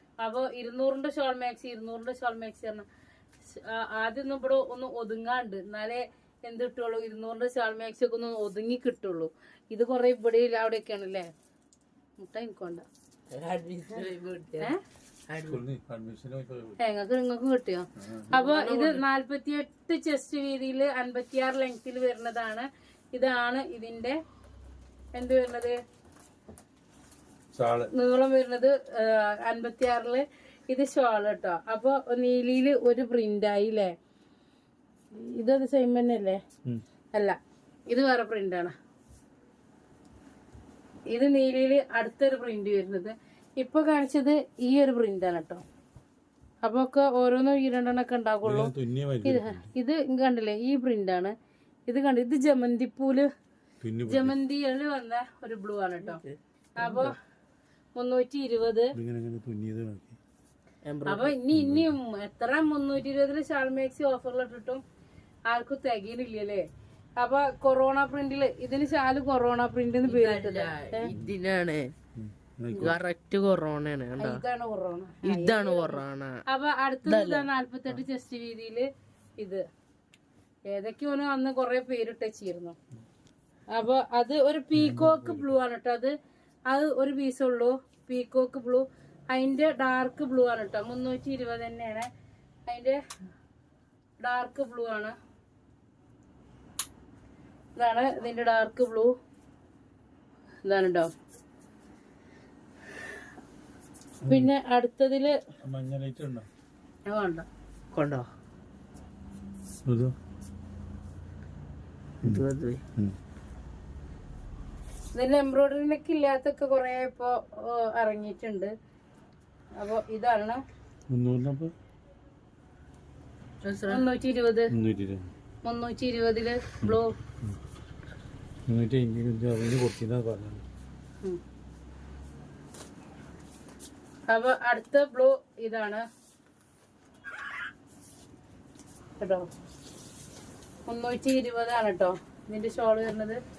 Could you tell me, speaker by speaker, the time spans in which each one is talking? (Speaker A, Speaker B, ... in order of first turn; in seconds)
Speaker A: 0.2-2.9, 3.5-11.3, 12.2-12.8, 16.8-24.2, 25.1-25.8, 27.9-33.9, 35.1-36.4, 37.9-38.7, 41.1-45.6, 46.6-48.7, 49.2-51.3, 51.9-53.3, 54.1-56.2, 56.8-57.2, 58.0-59.0, 61.1-64.8, 65.5-66.6, 67.2-71.1, 74.2-78.9, 79.4-79.6, 80.7-82.8, 83.7-86.1, 86.7-92.1, 92.7-93.0, 94.2-95.2, 97.8-99.1, 100.6-101.1, 104.3-105.4, 107.1-107.5, 115.1-118.7, 119.8-120.6, 123.9-124.7, 125.6-127.1, 134.3-136.1, 139.2-139.5, 140.9-143.4
Speaker B: 13.3-14.7, 15.3-15.6, 18.3-19.0, 56.0-57.1, 60.9-61.4, 70.0-71.9, 72.8-74.4, 75.2-76.4, 77.1-77.5, 107.9-108.3, 112.2-112.8, 123.6-124.0
Speaker C: 15.4-16.7, 18.0-18.3, 27.5-27.9, 48.4-49.7, 53.8-54.4, 58.9-60.2, 61.5-62.0, 72.2-73.0, 84.8-85.6, 104.2-104.5, 105.6-106.5, 109.8-110.2, 121.1-121.7, 124.7-125.3, 126.8-127.6, 128.7-130.7